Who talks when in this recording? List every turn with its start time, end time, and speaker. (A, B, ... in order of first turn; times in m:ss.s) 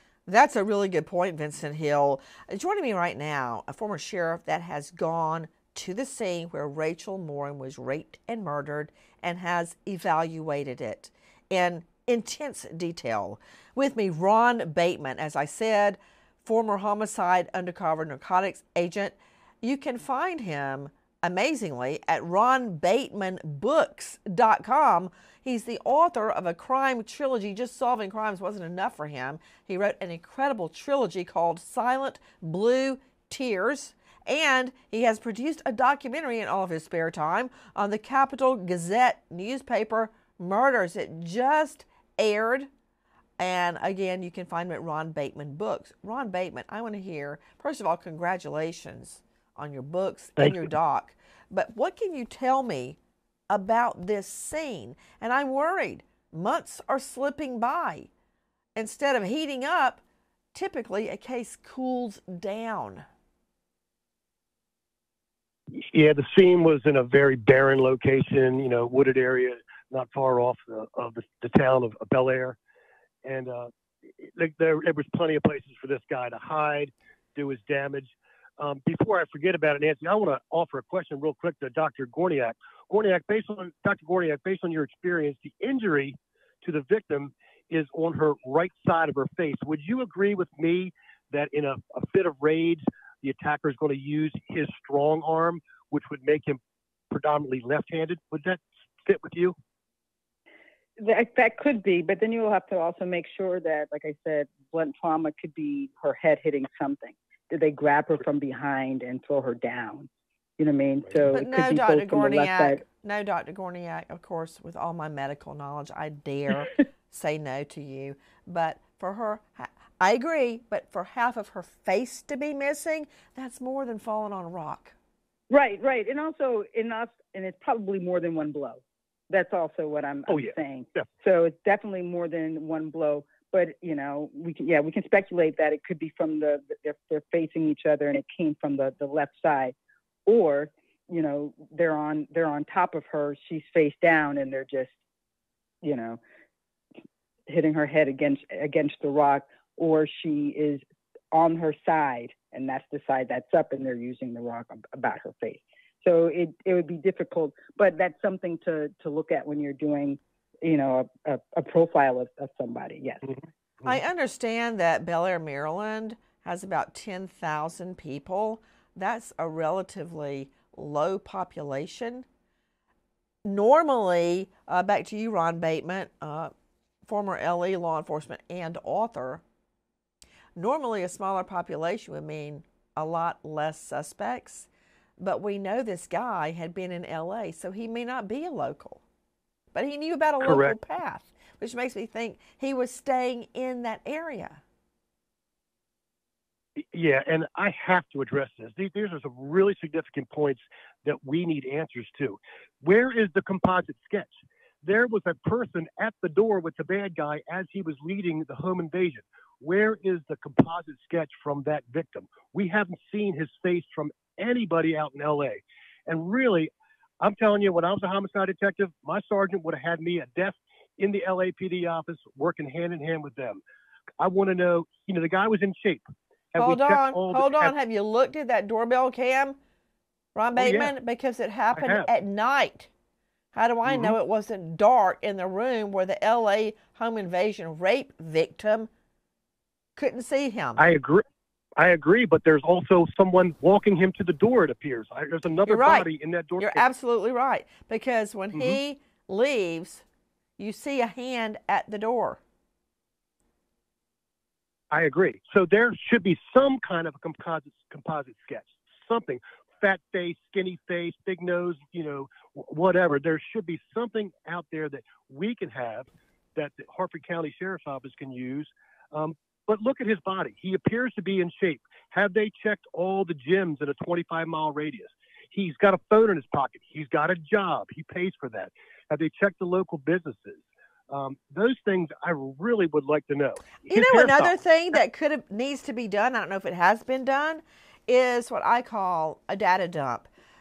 0:00.3-0:42.7 A
0:43.4-0:53.0 A
0:50.4-0:50.7 B
0:53.5-0:58.1 A
0:58.8-1:00.0 A
1:00.5-1:03.1 A
1:05.7-1:12.6 B
1:13.2-1:36.6 B
1:37.1-1:39.6 B
1:41.0-1:50.1 C
1:50.6-1:52.8 C
1:51.3-2:05.0 A
2:05.5-2:19.8 C
2:10.3-2:11.1 B
2:20.3-2:25.0 C
2:25.8-2:26.2 C
2:27.5-2:43.3 C
2:43.8-2:52.3 A
2:53.4-2:56.5 A
2:57.1-2:59.4 A
3:00.6-3:09.0 A
3:09.7-3:14.6 A
3:10.4-3:10.7 B
3:16.9-3:43.6 B
3:44.2-3:47.8 B
3:46.6-3:49.6 A
3:50.4-3:52.9 A
3:50.6-3:50.9 B
3:51.7-3:52.1 B
3:53.6-3:58.9 A
3:53.9-3:54.2 B
4:00.0-4:00.8 A
4:00.8-4:01.2 B
4:01.8-4:06.8 B
4:05.7-4:06.1 A
4:06.6-4:10.0 A
4:08.5-4:08.8 B
4:10.6-4:12.4 A
4:14.9-4:44.6 B
4:43.9-4:50.3 A